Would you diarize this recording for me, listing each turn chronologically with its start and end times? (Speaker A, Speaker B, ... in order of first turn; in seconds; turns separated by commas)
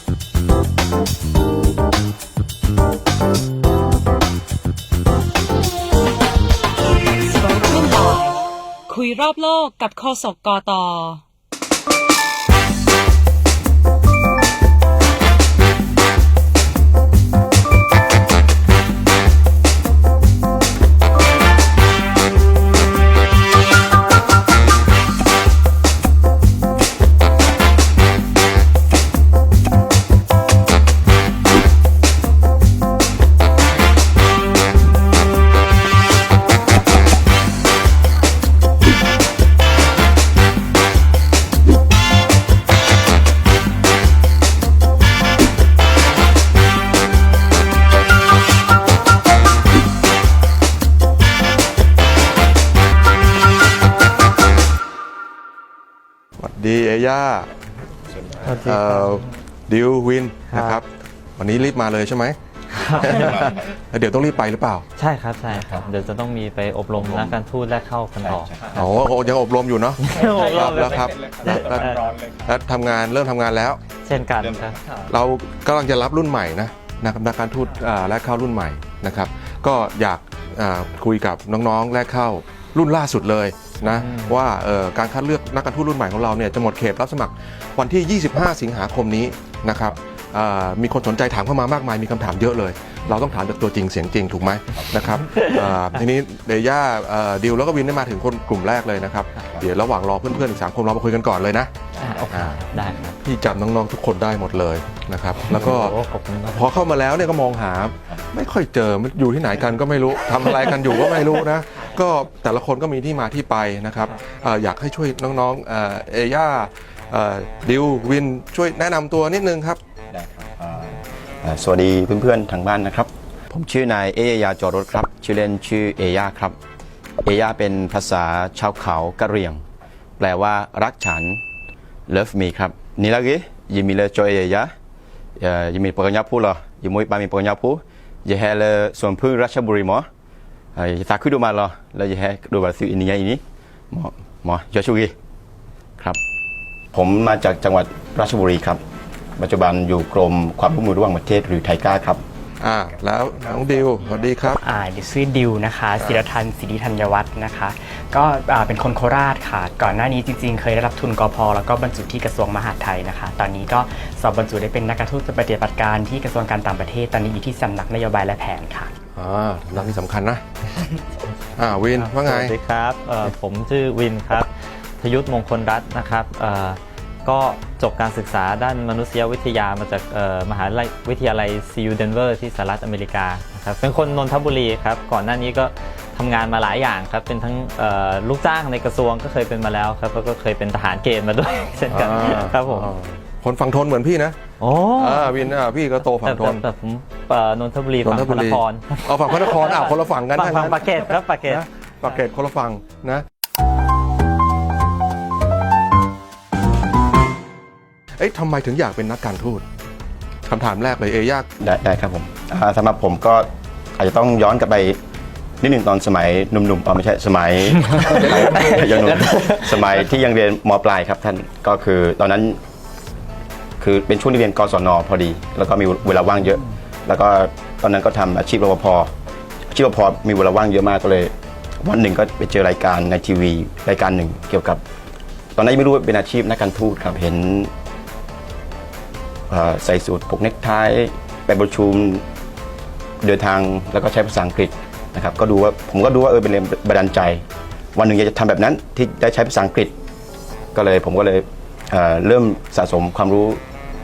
Speaker A: 7.2-11.2, Speaker B: 56.4-57.5, Speaker C: 58.1-58.5, Speaker D: 58.4-59.2, Speaker B: 58.6-60.9, Speaker D: 60.5-60.8, Speaker B: 61.4-62.4, Speaker D: 62.7-63.5, Speaker B: 63.0-64.8, Speaker C: 63.0-63.7, Speaker D: 65.0-68.9, Speaker C: 65.5-65.8, Speaker C: 66.9-67.4, Speaker C: 68.2-68.8, Speaker B: 68.7-73.8, Speaker D: 70.0-72.2, Speaker D: 74.0-74.8, Speaker C: 74.3-74.8, Speaker B: 75.1-102.6, Speaker D: 83.8-84.4, Speaker D: 95.3-95.6, Speaker C: 99.4-99.7, Speaker C: 101.9-102.3, Speaker D: 102.0-103.2, Speaker B: 103.2-106.0, Speaker D: 105.5-106.8, Speaker B: 106.5-119.8, Speaker C: 120.1-126.6, Speaker C: 127.2-129.6, Speaker C: 130.2-131.4, Speaker C: 132.1-134.7, Speaker C: 135.4-140.1, Speaker C: 140.8-145.1, Speaker C: 146.9-148.8, Speaker C: 149.4-152.2, Speaker B: 152.6-154.6, Speaker E: 154.6-168.9, Speaker B: 156.0-156.2, Speaker B: 169.1-170.4, Speaker B: 171.6-172.5, Speaker D: 171.9-192.9, Speaker B: 191.9-194.4, Speaker D: 194.6-195.5, Speaker B: 194.9-196.6, Speaker D: 196.2-201.6, Speaker B: 198.0-203.2, Speaker B: 208.2-209.6, Speaker B: 210.4-211.5, Speaker C: 211.6-215.0, Speaker C: 215.6-222.6, Speaker E: 218.0-219.9, Speaker B: 218.1-218.9, Speaker C: 223.8-229.1, Speaker C: 229.7-234.8, Speaker C: 235.6-237.7, Speaker C: 239.5-242.2, Speaker C: 243.2-249.9, Speaker C: 250.7-253.6